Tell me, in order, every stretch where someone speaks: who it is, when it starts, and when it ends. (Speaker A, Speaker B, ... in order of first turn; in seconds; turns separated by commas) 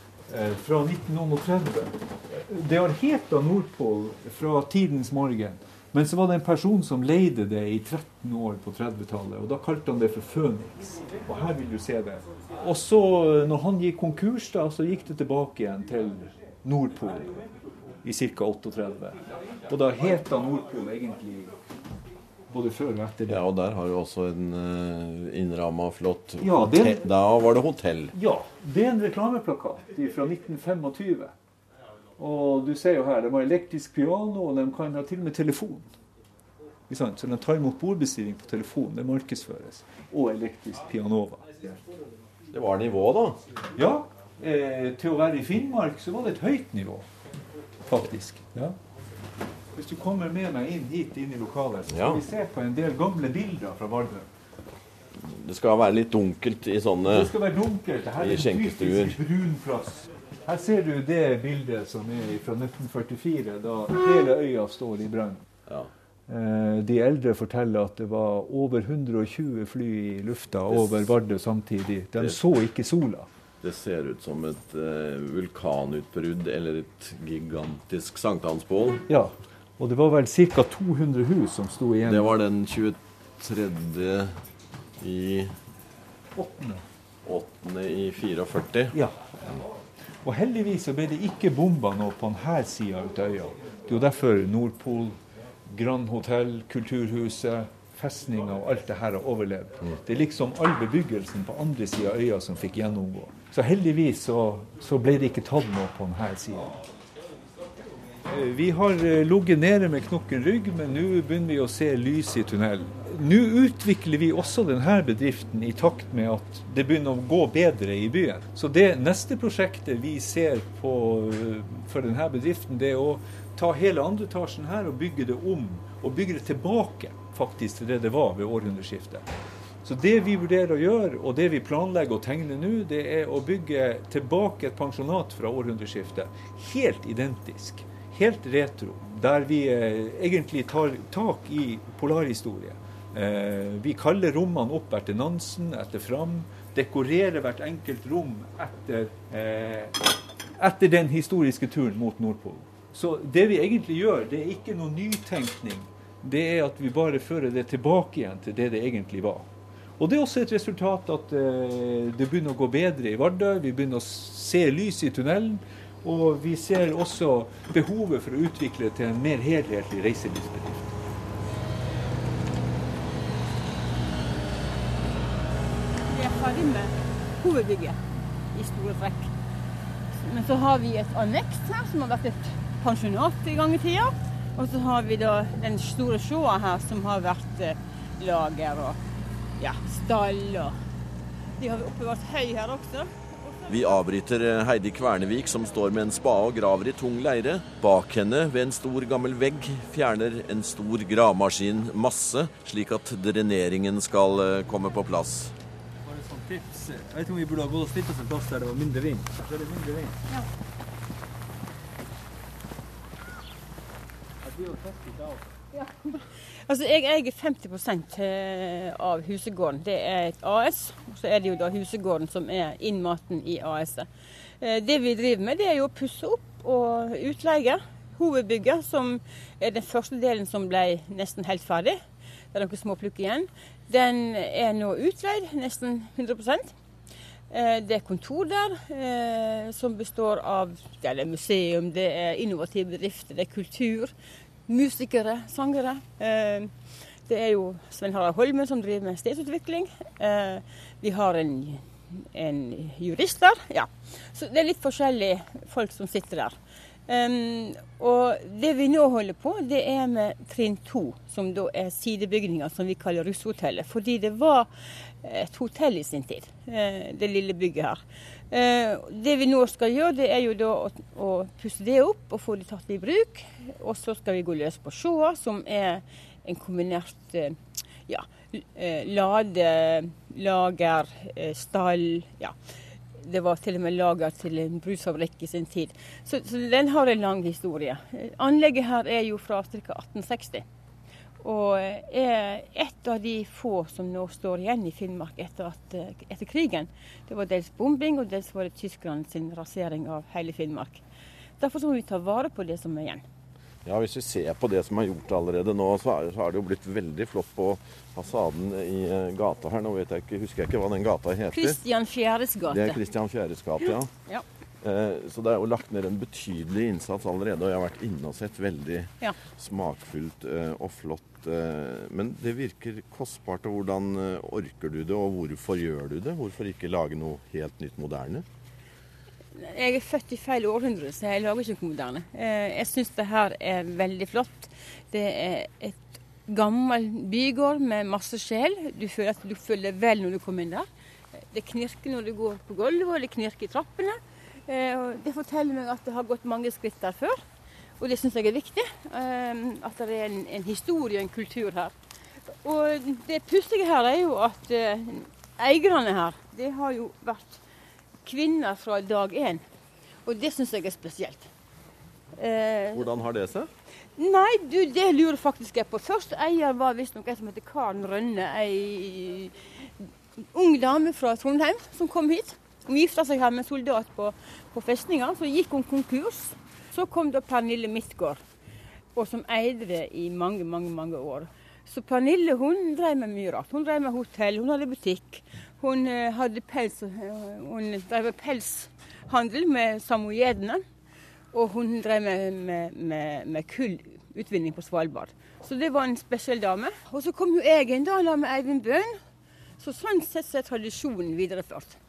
Speaker A: 0.3-17.5, Speaker A: 18.0-21.6, Speaker A: 22.5-23.4, Speaker B: 23.2-28.1, Speaker A: 26.4-27.0, Speaker A: 28.1-31.3, Speaker A: 32.2-35.9, Speaker A: 36.9-41.8, Speaker B: 42.5-43.4, Speaker A: 43.8-47.1, Speaker A: 47.9-48.8, Speaker A: 49.7-54.3, Speaker B: 51.9-52.2, Speaker B: 55.2-57.3, Speaker A: 57.1-65.4, Speaker B: 58.2-59.2, Speaker A: 66.3-73.3, Speaker B: 70.7-71.1, Speaker B: 73.6-79.0, Speaker A: 79.1-82.3, Speaker B: 82.0-84.4, Speaker B: 85.0-85.5, Speaker A: 86.3-86.8, Speaker B: 87.2-89.6, Speaker A: 88.9-89.3, Speaker A: 90.2-95.2, Speaker A: 95.7-106.8, Speaker A: 108.2-129.3, Speaker A: 129.8-159.5, Speaker A: 160.0-171.0, Speaker C: 176.1-178.0, Speaker C: 178.5-179.3, Speaker C: 180.1-189.0, Speaker C: 189.6-190.8, Speaker C: 191.6-193.9, Speaker B: 193.7-205.5, Speaker D: 206.0-209.4, Speaker A: 209.4-210.1, Speaker D: 214.4-215.4, Speaker C: 215.7-232.0, Speaker C: 232.5-236.7, Speaker C: 237.5-244.1, Speaker C: 244.7-256.6, Speaker C: 257.1-282.6, Speaker C: 283.1-290.6, Speaker C: 291.4-301.0, Speaker C: 301.6-303.2, Speaker B: 303.8-311.8, Speaker C: 311.5-313.0, Speaker B: 312.6-314.1, Speaker B: 314.8-328.4, Speaker C: 329.5-340.9, Speaker C: 341.4-347.4, Speaker C: 348.0-351.9, Speaker C: 352.6-357.6, Speaker C: 358.2-359.6, Speaker C: 360.2-361.5, Speaker C: 362.3-363.1, Speaker B: 362.9-363.7, Speaker C: 364.2-378.4, Speaker C: 379.1-390.8, Speaker C: 391.5-399.2, Speaker C: 399.8-402.0